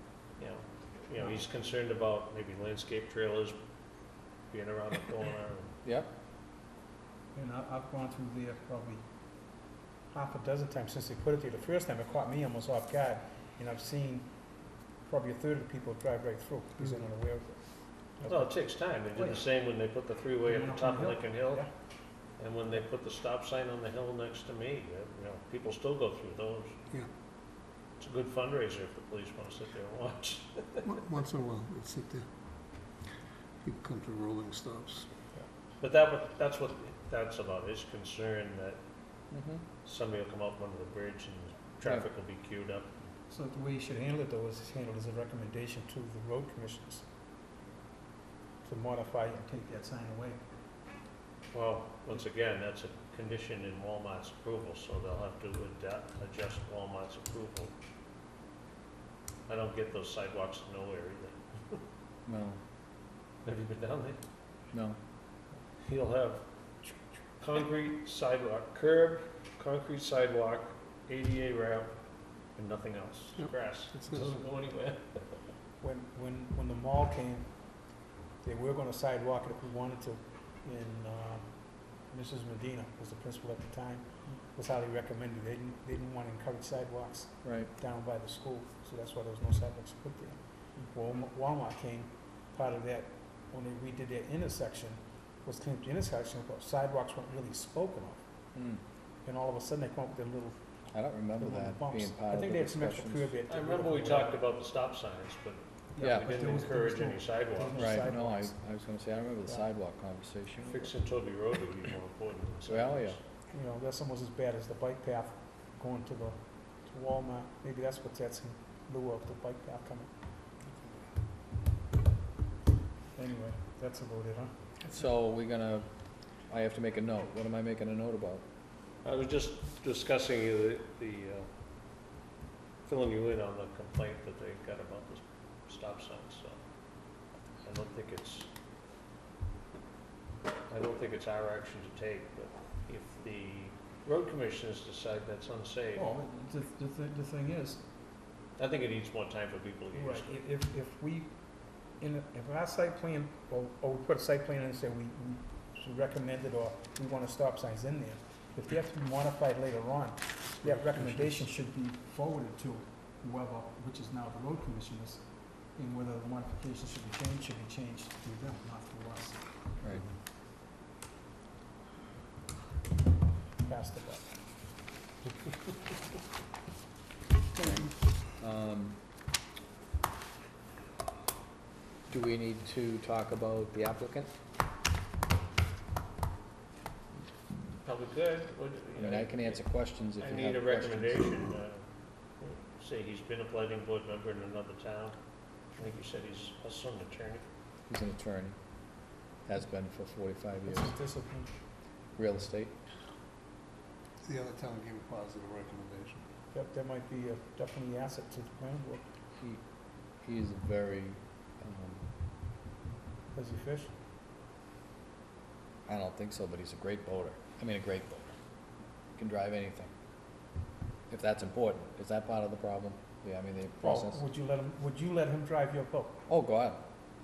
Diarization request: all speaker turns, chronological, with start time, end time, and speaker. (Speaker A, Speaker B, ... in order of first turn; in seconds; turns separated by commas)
Speaker A: 0.4-3.5, Speaker A: 4.5-5.7, Speaker B: 5.8-6.1, Speaker C: 7.3-9.0, Speaker C: 10.1-14.4, Speaker C: 15.0-19.4, Speaker A: 18.2-21.7, Speaker C: 20.4-21.7, Speaker A: 22.4-26.7, Speaker A: 28.0-30.9, Speaker D: 30.8-32.3, Speaker D: 33.6-35.1, Speaker A: 35.8-38.8, Speaker B: 39.3-39.6, Speaker A: 39.8-42.9, Speaker C: 43.3-47.0, Speaker C: 48.6-50.4, Speaker A: 51.5-57.7, Speaker A: 59.5-61.8, Speaker B: 62.2-62.6, Speaker A: 63.5-64.2, Speaker B: 64.7-65.0, Speaker A: 65.8-71.9, Speaker A: 72.5-75.3, Speaker D: 73.4-74.3, Speaker C: 75.8-77.8, Speaker C: 78.4-98.2, Speaker B: 87.4-87.7, Speaker B: 98.5-98.8, Speaker C: 99.2-100.6, Speaker B: 100.9-103.3, Speaker C: 101.2-104.4, Speaker A: 103.5-107.9, Speaker C: 106.0-108.5, Speaker B: 106.0-106.2, Speaker B: 107.7-110.9, Speaker A: 110.7-113.2, Speaker B: 112.7-113.2, Speaker C: 113.5-120.1, Speaker C: 123.1-124.5, Speaker B: 124.9-128.4, Speaker A: 129.0-131.5, Speaker A: 132.8-136.6, Speaker A: 137.6-138.5, Speaker A: 140.7-146.1, Speaker C: 145.9-147.8, Speaker A: 148.6-150.3, Speaker C: 149.9-169.4, Speaker D: 160.6-161.4, Speaker B: 169.8-170.1, Speaker C: 173.6-174.3, Speaker B: 177.6-179.0, Speaker B: 182.1-184.3, Speaker A: 187.8-191.8, Speaker B: 188.9-191.3, Speaker A: 192.4-197.4, Speaker B: 197.9-198.7, Speaker B: 199.4-200.9, Speaker C: 200.7-201.5, Speaker B: 202.2-202.7, Speaker D: 204.2-206.2, Speaker C: 206.5-209.1, Speaker B: 209.4-212.1, Speaker C: 213.3-213.9, Speaker B: 215.9-218.3, Speaker B: 219.1-219.9, Speaker B: 221.1-224.2, Speaker C: 223.8-226.2, Speaker B: 226.3-226.8